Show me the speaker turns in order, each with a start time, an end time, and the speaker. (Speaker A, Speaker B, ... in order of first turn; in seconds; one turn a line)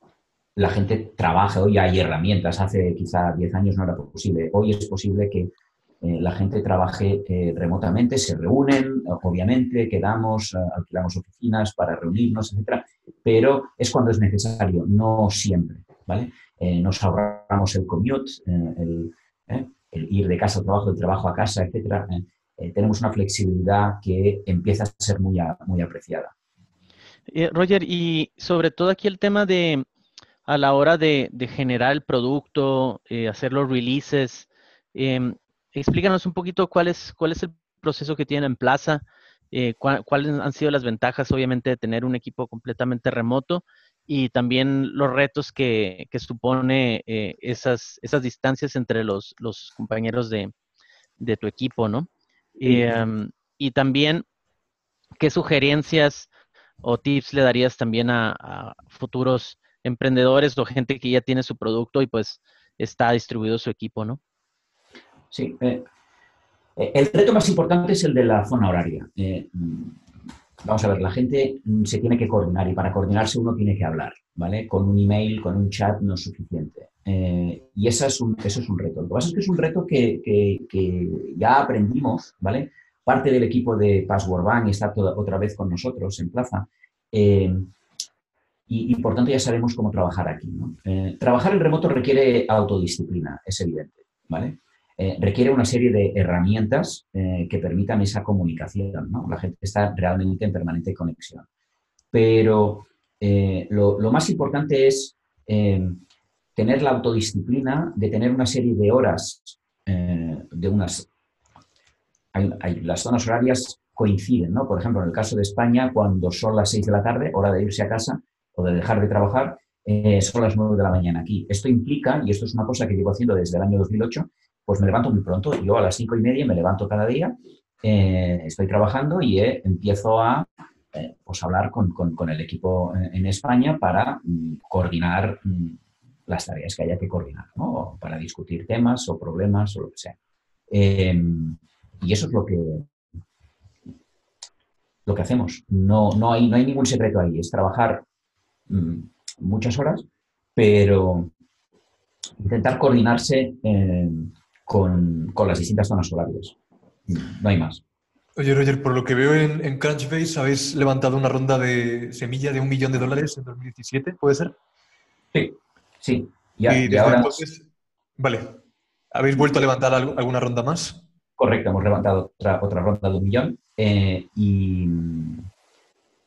Speaker A: 0.6-26.3
Speaker B: 27.3-29.9
Speaker B: 30.5-50.5
Speaker B: 51.2-52.1
Speaker B: 52.6-54.2
Speaker B: 55.2-56.3
Speaker B: 56.8-64.2
Speaker A: 65.3-65.8
Speaker A: 66.8-70.0
Speaker A: 70.6-87.7
Speaker A: 88.7-101.5
Speaker A: 102.1-106.0
Speaker A: 106.6-111.1
Speaker A: 112.3-140.2
Speaker A: 140.7-142.9
Speaker A: 145.1-148.1
Speaker A: 148.7-150.1
Speaker A: 150.6-151.3
Speaker A: 152.4-156.6
Speaker A: 157.1-157.8
Speaker C: 158.4-164.5
Speaker A: 165.3-167.4
Speaker C: 166.7-167.7
Speaker C: 168.2-168.6
Speaker C: 169.1-171.0
Speaker A: 171.4-175.4